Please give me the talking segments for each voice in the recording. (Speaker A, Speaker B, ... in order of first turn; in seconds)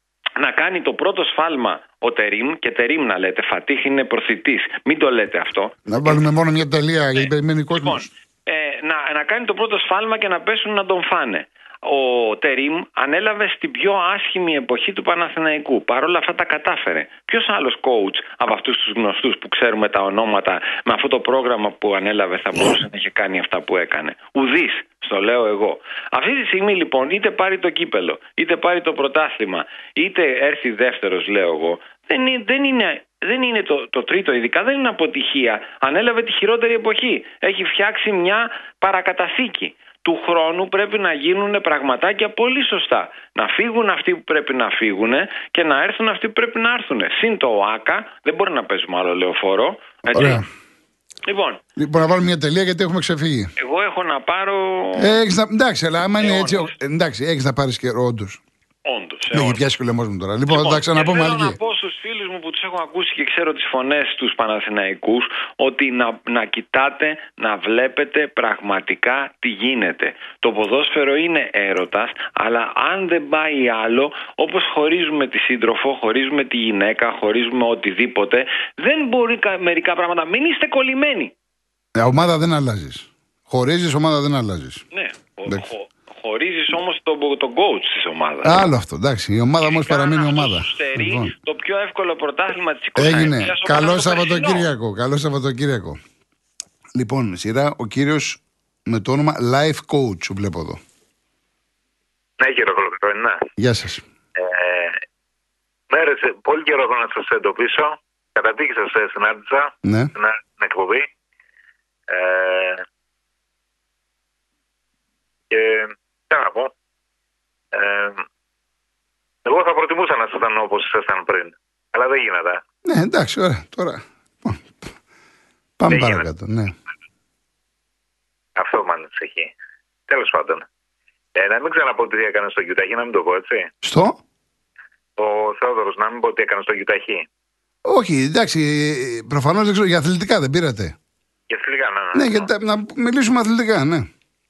Speaker A: 0.4-6.2, 7.2-50.4, 51.2-51.6, 53.6-55.2, 56.2-56.7, 58.9-59.6, 60.5-81.3, 84.9-88.5, 89.6-94.7
Speaker B: 5.9-8.1, 50.1-50.4, 51.8-53.5, 55.0-58.4, 59.3-61.6, 82.0-84.8, 88.4-91.3, 93.0-96.0, 96.9-100.8, 103.6-104.0, 109.8-110.1, 122.8-124.9, 125.8-126.7, 133.8-134.2, 137.8-140.9, 142.1-144.1
Speaker C: 102.4-103.5, 104.3-105.0, 105.9-111.1, 112.1-112.8, 115.5-116.7, 117.7-118.2, 119.4-122.6, 125.9-126.2, 128.6-129.5, 130.1-130.7, 131.3-133.7, 135.2-137.2, 141.5-142.5